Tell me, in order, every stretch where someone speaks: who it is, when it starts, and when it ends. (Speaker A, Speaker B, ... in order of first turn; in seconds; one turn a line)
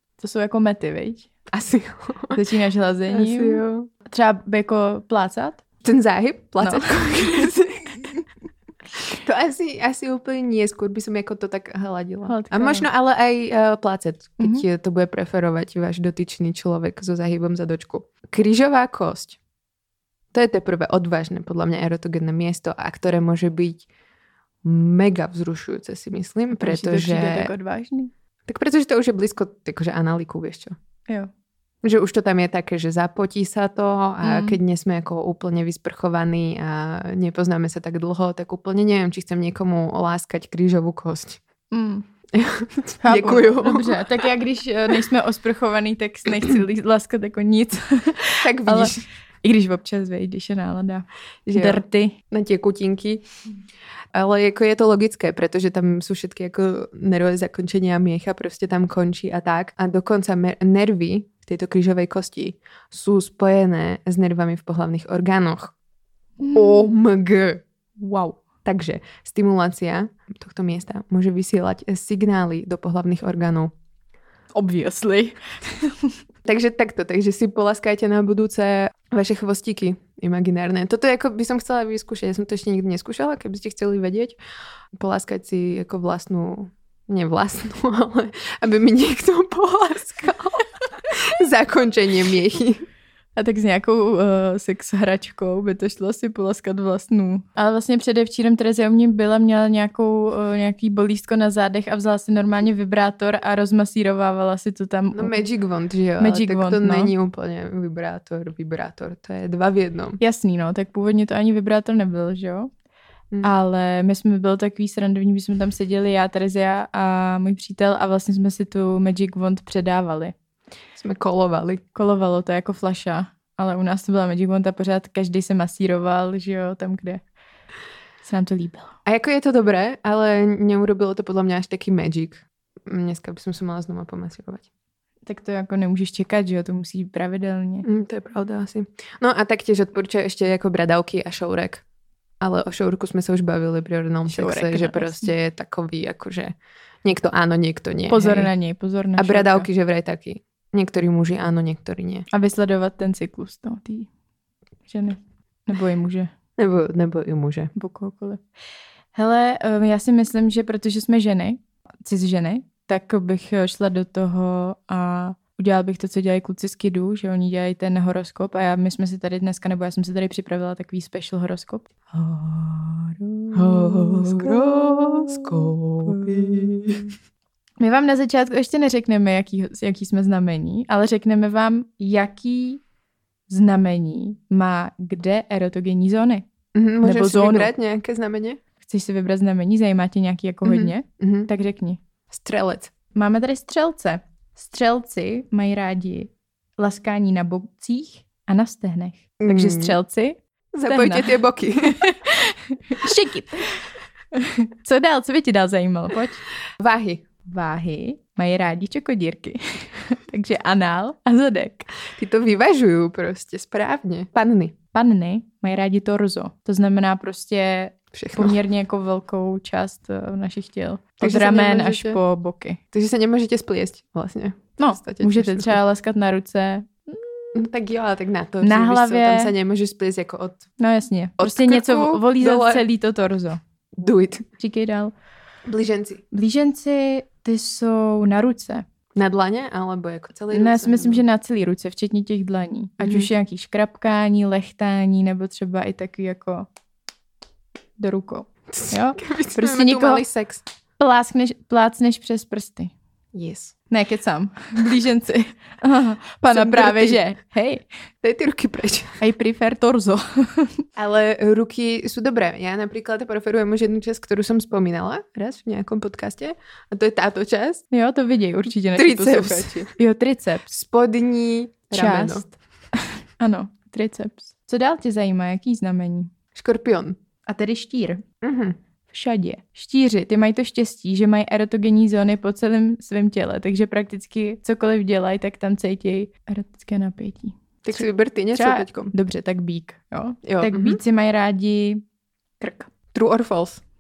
Speaker A: 0.2-1.3
Speaker B: 1.5-2.4
Speaker A: 2.3-5.6
Speaker B: 3.1-3.9
Speaker B: 5.8-8.1
Speaker A: 6.6-7.5
Speaker B: 9.0-19.4
Speaker A: 12.3-12.9
Speaker A: 14.4-14.7
Speaker B: 20.3-23.9
Speaker B: 24.6-27.5
Speaker A: 26.5-28.1
Speaker B: 28.5-30.8
Speaker B: 31.8-41.4
Speaker A: 34.2-34.6
Speaker A: 41.7-42.1
Speaker B: 42.3-44.0
Speaker A: 43.0-52.2
Speaker B: 48.4-49.1
Speaker B: 51.5-53.2
Speaker B: 54.1-65.7
Speaker A: 66.4-66.9
Speaker B: 66.5-73.7
Speaker A: 74.5-76.1
Speaker B: 76.5-84.4
Speaker B: 84.9-92.8
Speaker A: 93.4-105.4
Speaker B: 105.1-110.2
Speaker A: 106.2-107.1
Speaker A: 110.2-112.7
Speaker A: 113.4-120.3
Speaker B: 121.0-121.8
Speaker A: 122.0-127.2
Speaker A: 128.2-128.9
Speaker B: 129.1-134.7
Speaker A: 135.3-137.9
Speaker B: 137.8-141.8
Speaker B: 142.4-148.5
Speaker A: 144.3-145.3
Speaker A: 148.1-149.7
Speaker B: 149.2-152.3
Speaker A: 152.3-154.1
Speaker A: 154.9-156.3
Speaker B: 156.6-157.7
Speaker A: 157.8-158.4
Speaker A: 159.2-176.9
Speaker B: 173.6-177.1
Speaker A: 177.8-182.8
Speaker A: 183.5-186.5
Speaker B: 186.7-188.6
Speaker A: 187.0-187.7
Speaker A: 188.8-192.0
Speaker B: 190.6-191.5
Speaker B: 192.3-192.9
Speaker A: 193.1-206.4
Speaker B: 199.4-200.0
Speaker B: 200.7-202.2
Speaker B: 206.8-207.3
Speaker A: 207.4-211.9
Speaker B: 212.1-214.8
Speaker A: 214.9-222.8
Speaker B: 218.1-218.6
Speaker B: 221.2-222.2
Speaker B: 222.9-225.8
Speaker A: 224.8-227.6
Speaker B: 227.6-230.7
Speaker A: 228.6-229.5
Speaker A: 230.8-233.6
Speaker B: 231.4-232.8
Speaker B: 234.0-234.5
Speaker A: 234.6-235.1
Speaker B: 235.7-236.2
Speaker A: 236.3-238.8
Speaker B: 239.2-241.2
Speaker A: 240.5-246.7
Speaker B: 243.0-243.3
Speaker A: 248.0-250.2
Speaker B: 248.7-250.6
Speaker A: 251.0-252.9
Speaker B: 253.3-253.8
Speaker A: 253.9-257.8
Speaker B: 256.5-257.2
Speaker B: 258.2-259.2
Speaker A: 259.2-260.8
Speaker B: 261.0-267.8
Speaker A: 267.9-270.7
Speaker B: 269.0-269.9
Speaker B: 270.7-272.5
Speaker A: 271.9-276.3
Speaker B: 276.6-277.2
Speaker A: 277.5-278.2
Speaker B: 278.4-278.8
Speaker A: 279.1-292.0
Speaker B: 287.9-289.1
Speaker B: 290.4-291.0
Speaker A: 292.6-292.9
Speaker B: 293.1-293.8